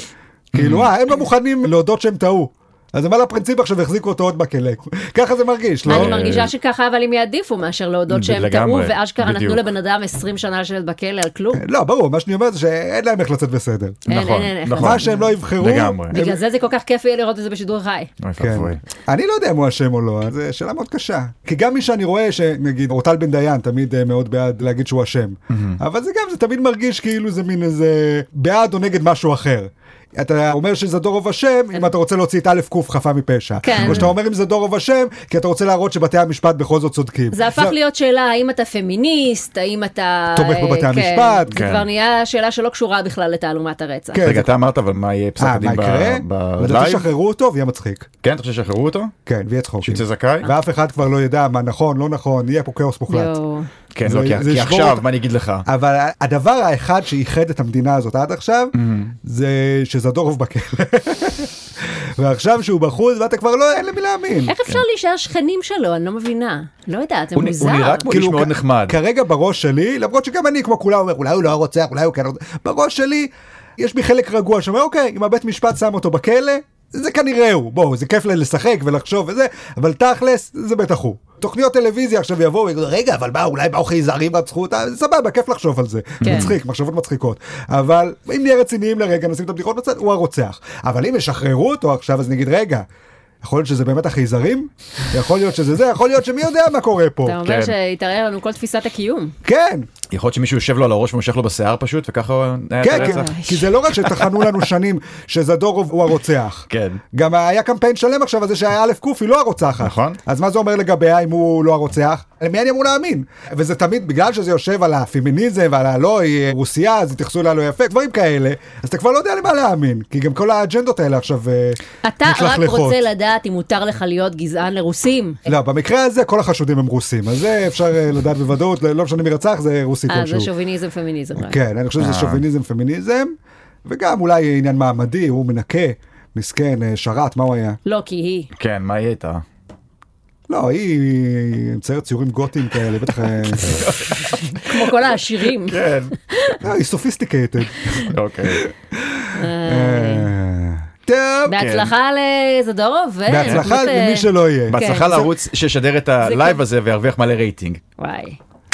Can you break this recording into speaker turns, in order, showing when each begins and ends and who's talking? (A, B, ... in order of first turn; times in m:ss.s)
0:00.5-0:00.9 A
0:00.5-0:06.2 B
0:05.9-0:06.5 A
0:05.9-0:11.6 C
0:08.1-0:09.7 A
0:11.5-0:14.1 B
0:14.1-0:15.3 C
0:14.1-0:16.2 A
0:14.8-0:16.4 B
0:16.1-0:18.1 C
0:18.2-0:18.8 A
0:18.4-0:37.8 B
0:25.5-0:25.8 A
0:33.6-0:34.1 C
0:33.8-0:34.1 A
0:37.3-0:44.3 C
0:40.3-0:41.6 B
0:41.6-0:41.9 A
0:44.1-0:44.5 B
0:44.2-0:47.1 A
0:45.4-0:48.1 B
0:48.2-0:49.1 A
0:49.3-0:53.4 B
0:49.8-0:50.5 A
0:53.1-0:53.7 C
0:54.0-0:55.7 A
0:54.0-0:55.0 B
0:55.7-1:04.5 B
0:58.8-0:59.1 A
1:04.5-1:08.0 C
1:07.4-1:09.0 A
1:08.1-1:32.9 B
1:26.2-1:26.6 A
1:26.2-1:26.5 C
1:33.4-1:37.4 B
1:37.2-1:39.4 C
1:37.4-1:37.7 A
1:39.4-1:39.9 B
1:40.1-1:44.3 A
1:42.8-2:03.0 B
1:42.9-1:43.6 C
1:46.7-1:47.0 A
1:49.8-1:50.2 A
2:02.0-2:05.4 C
2:05.5-2:10.5 B
2:10.1-2:11.6 C
2:11.4-2:13.3 B
2:12.0-2:12.4 A
2:13.8-2:17.8 B
2:17.9-2:18.5 C
2:18.6-2:19.4 A
2:20.5-2:23.9 B
2:23.5-2:24.9 A
2:24.4-2:25.8 C
2:25.4-2:26.1 A
2:26.3-2:26.6 C
2:26.6-2:31.6 B
2:28.0-2:28.7 A
2:29.3-2:30.3 C
2:31.5-2:35.3 C
2:31.6-2:31.9 A
2:33.3-2:35.3 B
2:33.4-2:33.7 A
2:34.7-2:37.8 A
2:36.2-2:36.6 C
2:38.0-2:38.4 C